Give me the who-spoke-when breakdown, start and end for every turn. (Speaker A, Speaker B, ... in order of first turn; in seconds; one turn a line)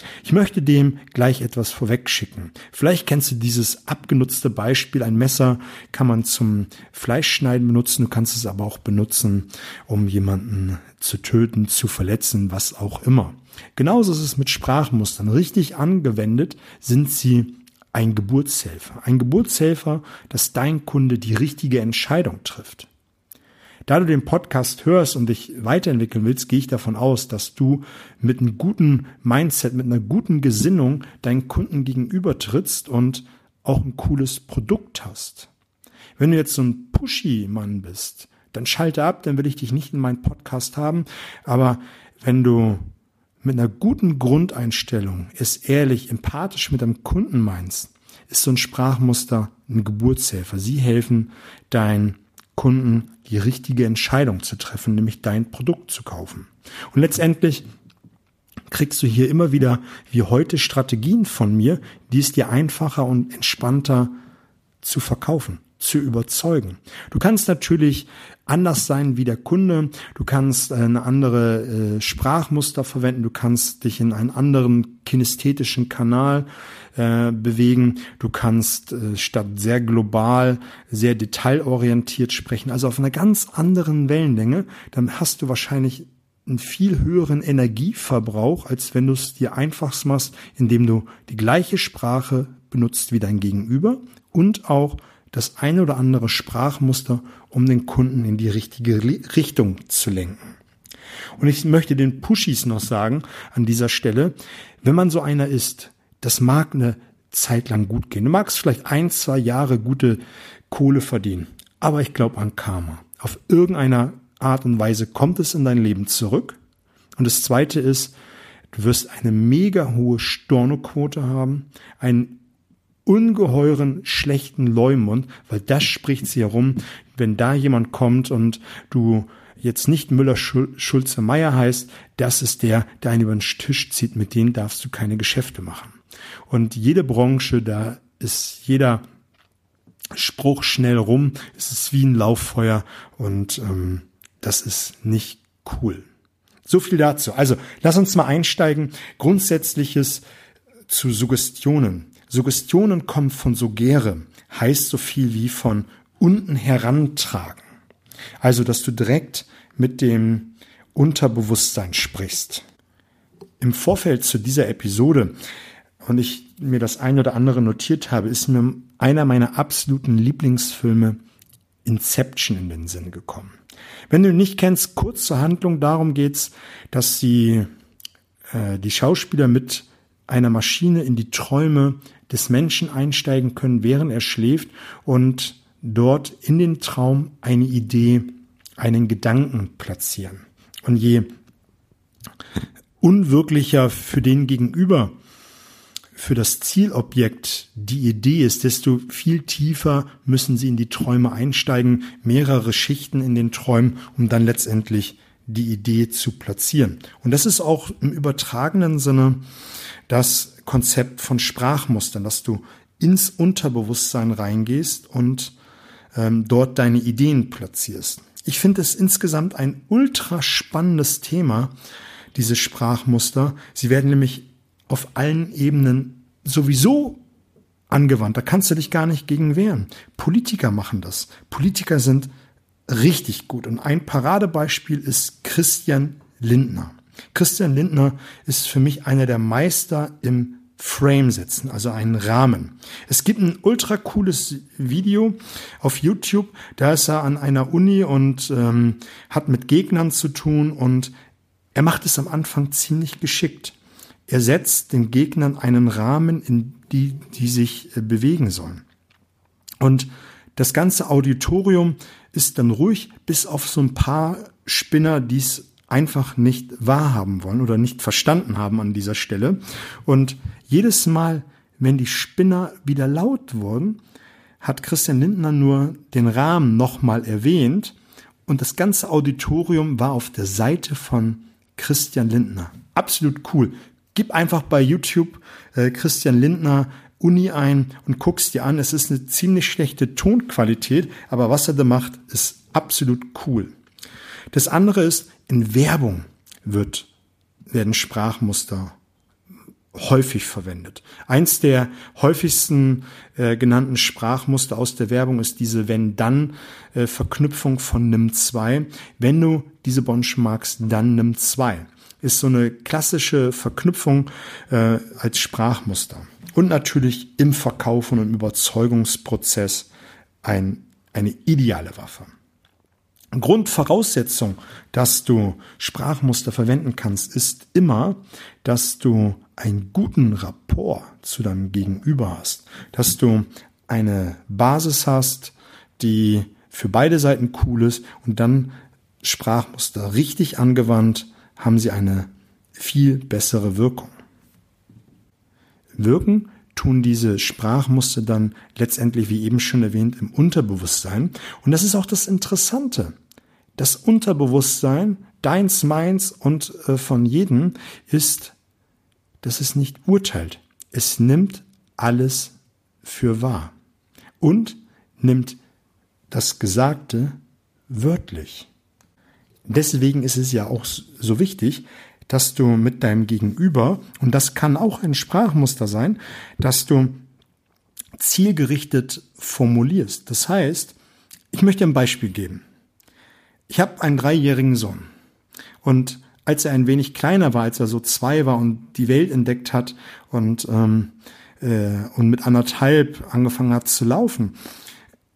Speaker A: 0.2-22.9
Speaker A: 23.9-35.5
Speaker A: 36.2-42.9
Speaker A: 43.4-57.6
Speaker A: 58.7-64.2
Speaker A: 64.8-100.5
Speaker A: 101.4-116.6
Speaker A: 117.2-118.2
Speaker A: 118.7-122.4
Speaker A: 123.1-136.0
Speaker A: 136.5-139.0
Speaker A: 140.2-146.1
Speaker A: 146.7-150.2
Speaker A: 150.9-157.6
Speaker A: 158.4-162.6
Speaker A: 163.6-165.3
Speaker A: 166.0-171.2
Speaker A: 171.8-173.6
Speaker A: 174.1-177.7
Speaker A: 178.5-191.3
Speaker A: 193.0-195.2
Speaker A: 196.2-209.4
Speaker A: 210.1-215.5
Speaker A: 216.1-221.7
Speaker A: 222.3-227.2
Speaker A: 227.9-232.3
Speaker A: 232.9-251.1
Speaker A: 251.8-253.8
Speaker A: 254.3-258.8
Speaker A: 259.8-274.0
Speaker A: 274.6-278.0
Speaker A: 278.5-293.7
Speaker A: 294.5-297.1
Speaker A: 297.7-299.0
Speaker A: 299.9-319.9
Speaker A: 320.4-322.3
Speaker A: 323.3-344.1
Speaker A: 346.0-353.1
Speaker A: 353.8-358.6
Speaker A: 359.4-363.7
Speaker A: 364.4-365.6
Speaker A: 366.3-367.4
Speaker A: 367.9-368.7
Speaker A: 369.7-377.3
Speaker A: 378.2-380.9
Speaker A: 381.5-382.6
Speaker A: 383.7-385.1
Speaker A: 385.8-394.6